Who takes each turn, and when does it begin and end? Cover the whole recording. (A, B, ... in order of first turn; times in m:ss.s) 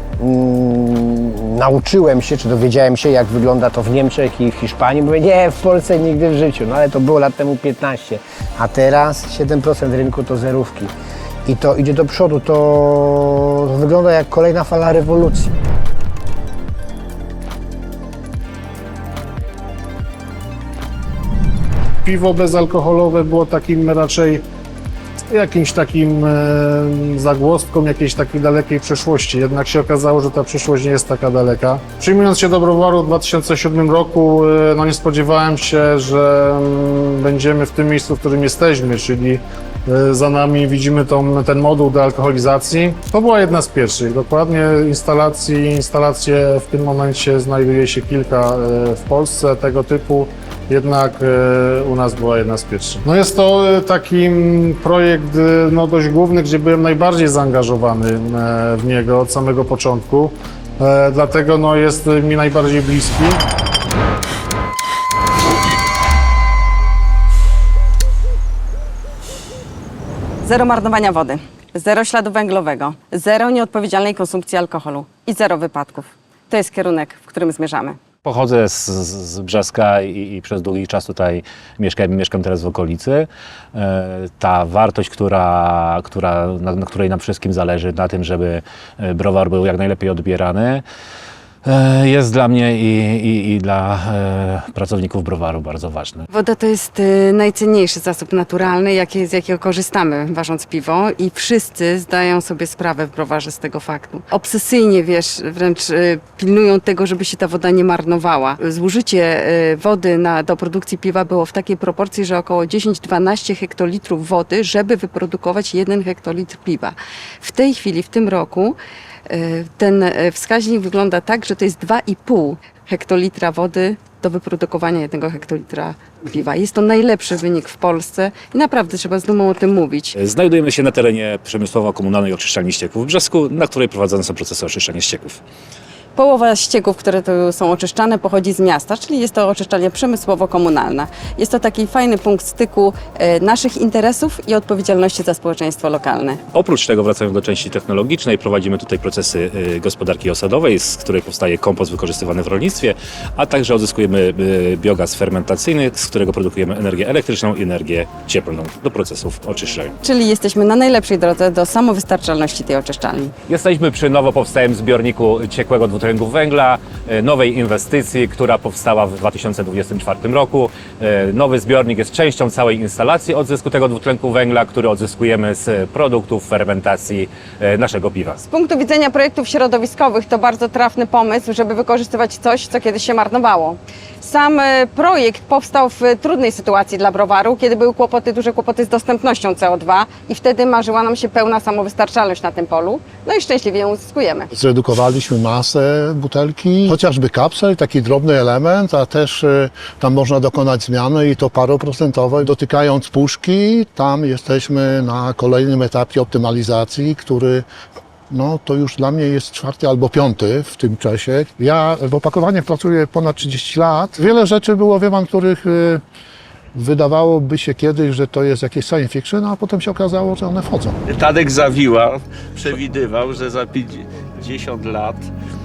0:00.2-0:10.9 A
0:11.5-0:15.6 A
0:22.0-0:24.4 B
0:25.3-1:03.4 B
1:10.4-1:18.0 C
1:18.2-1:30.8 D
1:31.6-1:36.2 D
1:36.3-1:58.8 C
1:59.3-2:10.2 C
2:10.2-2:15.4 D
2:16.2-2:26.4 C
2:26.5-2:40.0 D
2:40.0-2:43.3 C
2:43.5-2:58.4 D
2:58.5-3:14.5 C
3:14.5-3:27.7 E
3:28.3-3:36.0 E
3:36.7-3:41.0 E
3:41.1-3:45.3 F